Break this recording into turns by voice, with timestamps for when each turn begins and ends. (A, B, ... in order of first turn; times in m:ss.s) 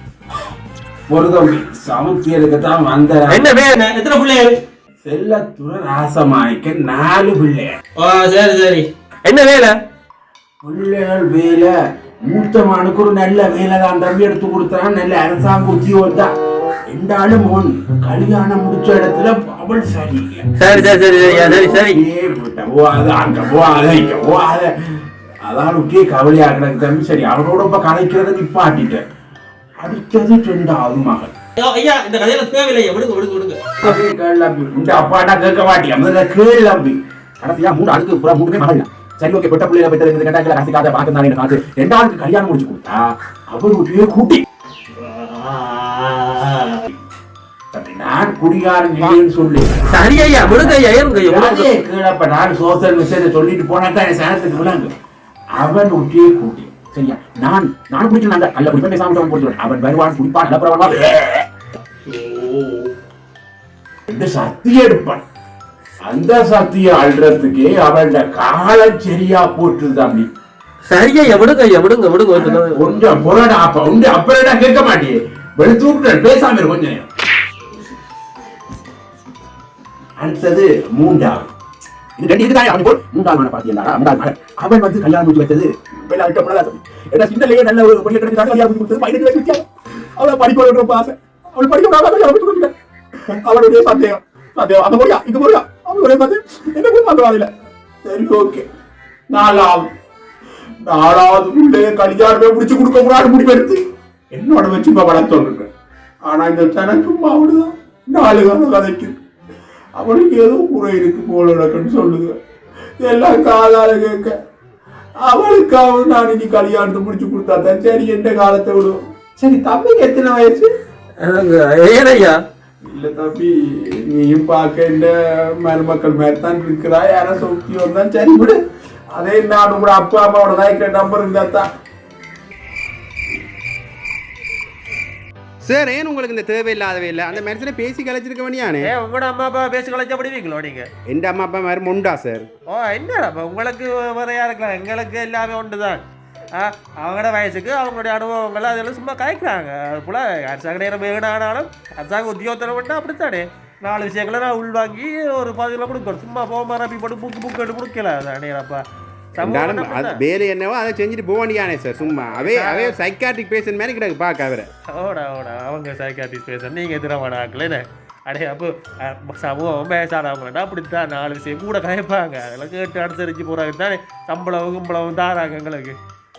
0:01.1-0:03.5 A
0:03.3-0:04.5 B
0:05.0-0:07.7 A
0:08.0-0:09.7 B
0:10.6-0:11.7 A
0:12.3-0:16.3 A
0:16.9-0:24.7 A
0:20.6-0:22.0 B
0:25.4-0:29.0 A
0:29.8-0:31.3 A
0:31.6-0:34.0 B
0:33.8-0:44.4 A
0:45.2-0:46.7 B
0:47.7-0:54.9 A
0:49.9-0:51.7 B
0:55.5-1:01.4 A
1:02.1-1:02.4 B
1:04.1-1:05.2 A
1:06.0-1:10.3 A
1:10.9-1:12.8 B
1:12.3-1:17.1 A
1:20.2-1:21.5 A
1:22.2-1:29.6 A
1:30.2-1:32.7 A
1:33.4-1:37.5 A
1:38.1-1:38.6 A
1:39.3-1:39.8 A
1:40.9-1:43.8 A
1:44.3-1:45.7 A
1:46.3-1:49.1 A
1:50.0-1:52.3 A
1:53.0-1:54.3 A
1:55.3-2:00.7 A
2:01.2-2:02.4 B
2:02.9-2:05.1 A
2:05.6-2:08.6 A
2:09.2-2:11.6 A
2:15.6-2:18.8 C
2:18.8-2:20.9 B
2:21.1-2:22.4 C
2:22.7-2:26.0 B
2:26.6-2:38.8 B
2:39.4-2:40.2 B
2:39.4-2:40.5 A
2:39.5-2:44.7 C
2:41.3-2:43.0 A
2:42.3-2:43.0 B
2:44.9-2:56.0 B